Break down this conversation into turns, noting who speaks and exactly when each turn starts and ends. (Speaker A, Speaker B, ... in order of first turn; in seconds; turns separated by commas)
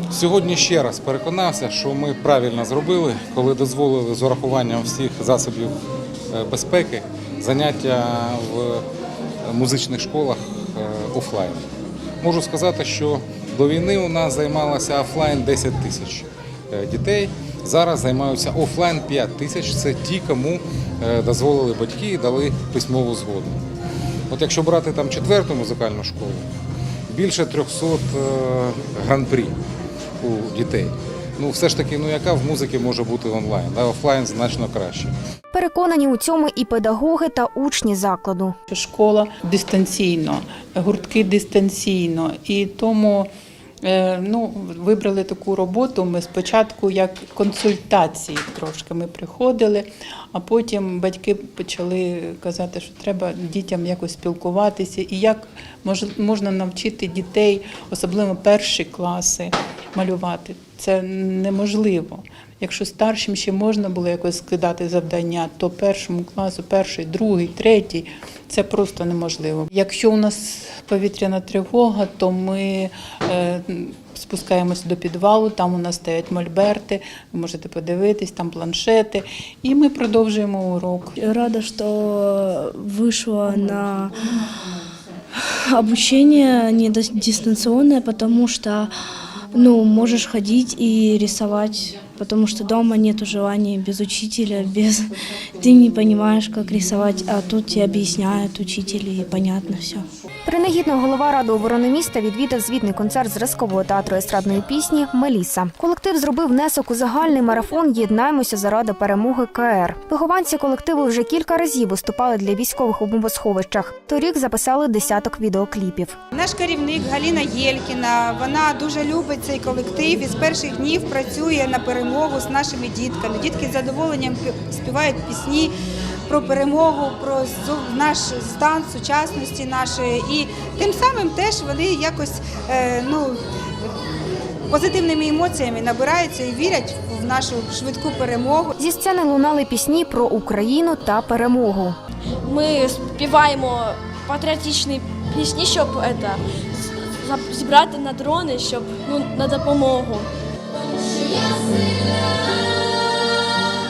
Speaker A: 0.1-5.7, Speaker A: 6.3-8.8, Speaker A: 9.5-11.7, Speaker A: 12.2-23.6, Speaker A: 24.3-26.4, Speaker A: 27.1-29.6, Speaker A: 30.2-35.1, Speaker B: 35.5-38.5, Speaker C: 38.7-43.3, Speaker C: 43.8-81.2, Speaker D: 81.2-84.2, Speaker D: 85.7-88.9, Speaker D: 89.5-100.1, Speaker B: 100.5-116.2, Speaker E: 116.3-125.7, Speaker E: 126.3-133.4, Speaker E: 134.7-138.8, Speaker B: 138.8-142.0, Speaker F: 142.4-146.4, Speaker F: 147.2-150.3